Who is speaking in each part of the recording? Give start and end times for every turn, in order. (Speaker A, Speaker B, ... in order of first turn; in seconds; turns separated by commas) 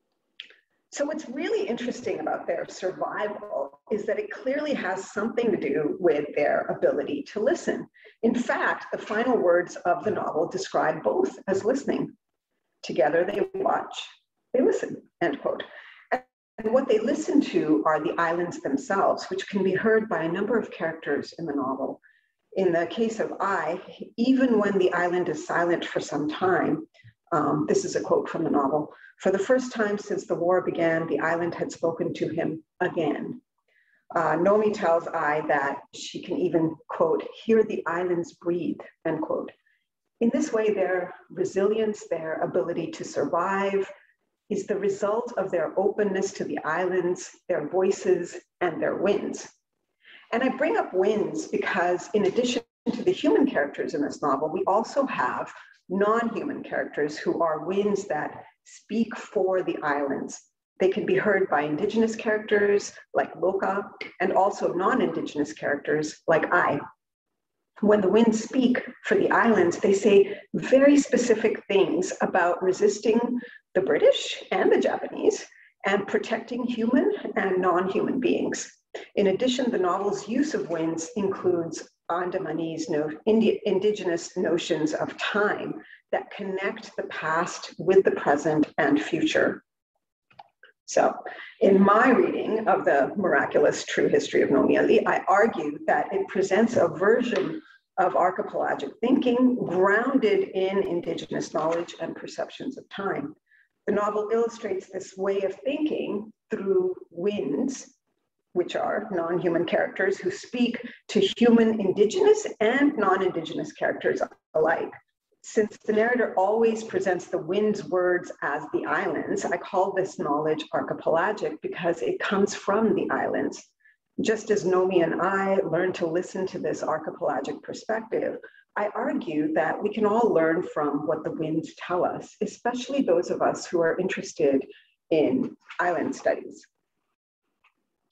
Speaker A: 0.9-12.1, Speaker A: 12.8-22.0, Speaker A: 22.5-33.4, Speaker A: 34.1-39.5, Speaker A: 40.2-43.9, Speaker A: 44.5-49.5, Speaker A: 50.3-66.8, Speaker A: 67.8-89.6, Speaker A: 90.9-103.3, Speaker A: 103.9-107.9, Speaker A: 108.5-114.9, Speaker A: 115.4-123.7, Speaker A: 124.2-136.7